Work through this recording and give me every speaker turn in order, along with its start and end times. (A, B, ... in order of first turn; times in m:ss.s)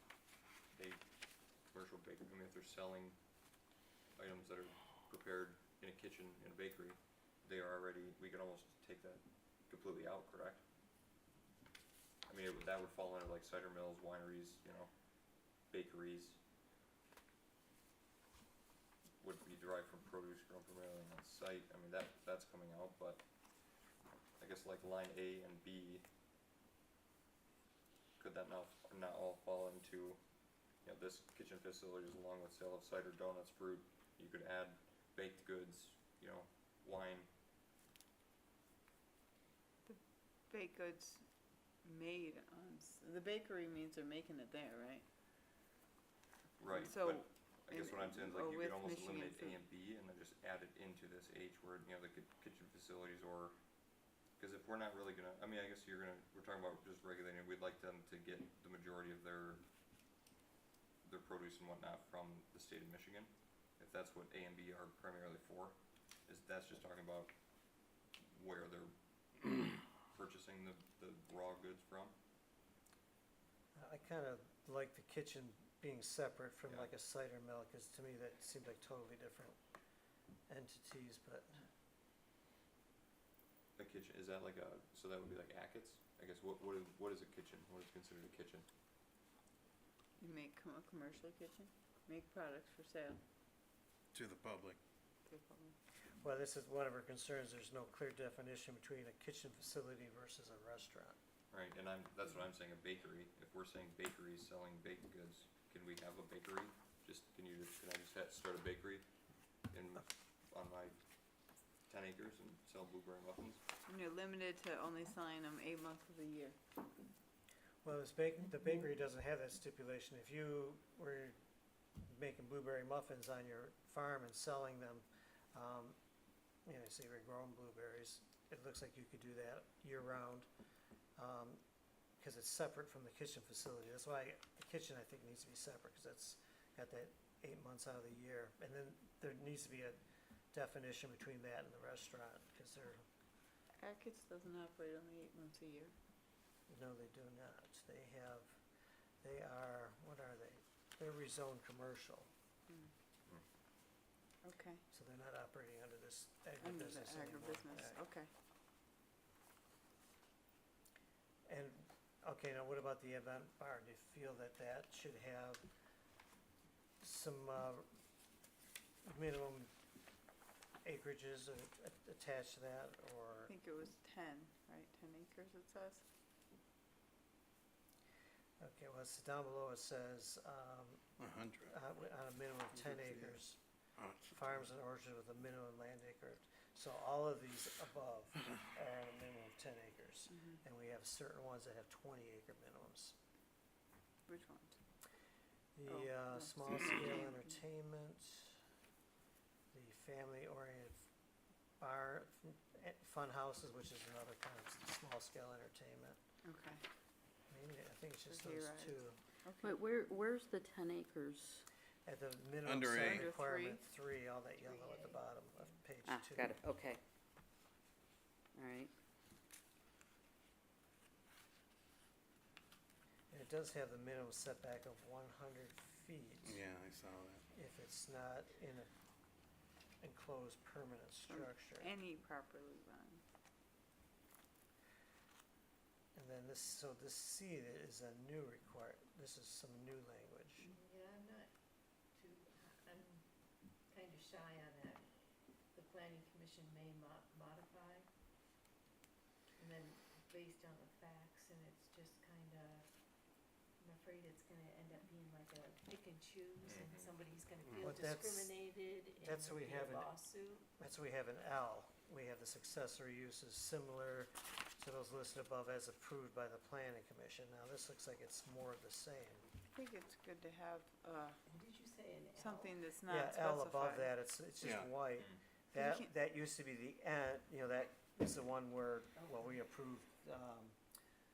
0:00.7-0:03.2 A
0:04.2-0:10.6 A
0:12.3-0:16.4 A
0:19.2-0:23.2 A
0:24.4-0:26.1 A
0:28.2-0:37.3 A
0:39.9-0:45.1 B
0:46.6-0:53.6 A
0:46.7-0:49.6 B
0:54.3-0:59.6 A
1:01.0-1:07.3 A
1:08.2-1:12.2 A
1:13.8-1:19.6 C
1:20.5-1:21.6 C
1:23.8-1:28.7 A
1:30.2-1:33.2 B
1:34.1-1:34.8 D
1:35.3-1:35.8 B
1:36.2-1:41.2 C
1:41.5-1:49.1 A
1:49.7-1:51.1 A
1:51.9-1:53.6 A
1:53.9-1:56.6 B
1:57.8-2:01.4 C
2:02.0-2:06.0 C
2:06.7-2:10.5 C
2:11.2-2:11.6 C
2:12.2-2:20.0 C
2:20.5-2:23.0 C
2:23.8-2:25.9 B
2:26.7-2:28.6 C
2:29.2-2:32.3 C
2:34.4-2:34.8 B
2:34.9-2:38.0 C
2:36.6-2:38.3 B
2:41.5-2:45.7 C
2:47.0-2:47.8 C
2:49.0-2:49.7 C
2:50.8-2:53.5 C
2:53.5-2:56.0 B
2:58.6-3:01.0 C
3:01.2-3:01.8 D
3:01.7-3:03.6 C
3:04.0-3:04.5 D
3:04.3-3:13.2 C
3:14.3-3:14.8 B
3:15.8-3:18.6 C
3:15.9-3:17.5 B
3:19.7-3:21.1 C
3:21.8-3:26.2 C
3:26.4-3:26.8 B
3:27.5-3:29.2 C
3:28.3-3:29.8 B
3:29.6-3:31.6 E
3:32.1-3:36.6 C
3:32.6-3:33.2 D
3:32.9-3:33.8 B
3:34.6-3:35.7 F
3:36.0-3:37.0 E
3:38.6-3:38.9 E
3:43.3-3:46.6 C
3:46.4-3:47.4 D
3:47.5-3:48.9 C
3:50.0-3:51.9 C
3:51.2-3:53.2 B
3:56.2-4:00.7 C
4:00.7-4:01.5 F
4:02.1-4:03.2 F
4:03.9-4:05.1 F
4:05.7-4:08.0 F
4:09.6-4:20.7 F
4:16.6-4:17.1 A
4:17.8-4:20.1 C
4:20.8-4:29.5 C
4:29.7-4:31.4 B
4:31.5-4:32.7 F
4:32.4-4:34.1 B
4:33.0-4:40.8 C
4:34.6-4:34.9 D
4:35.8-4:36.1 B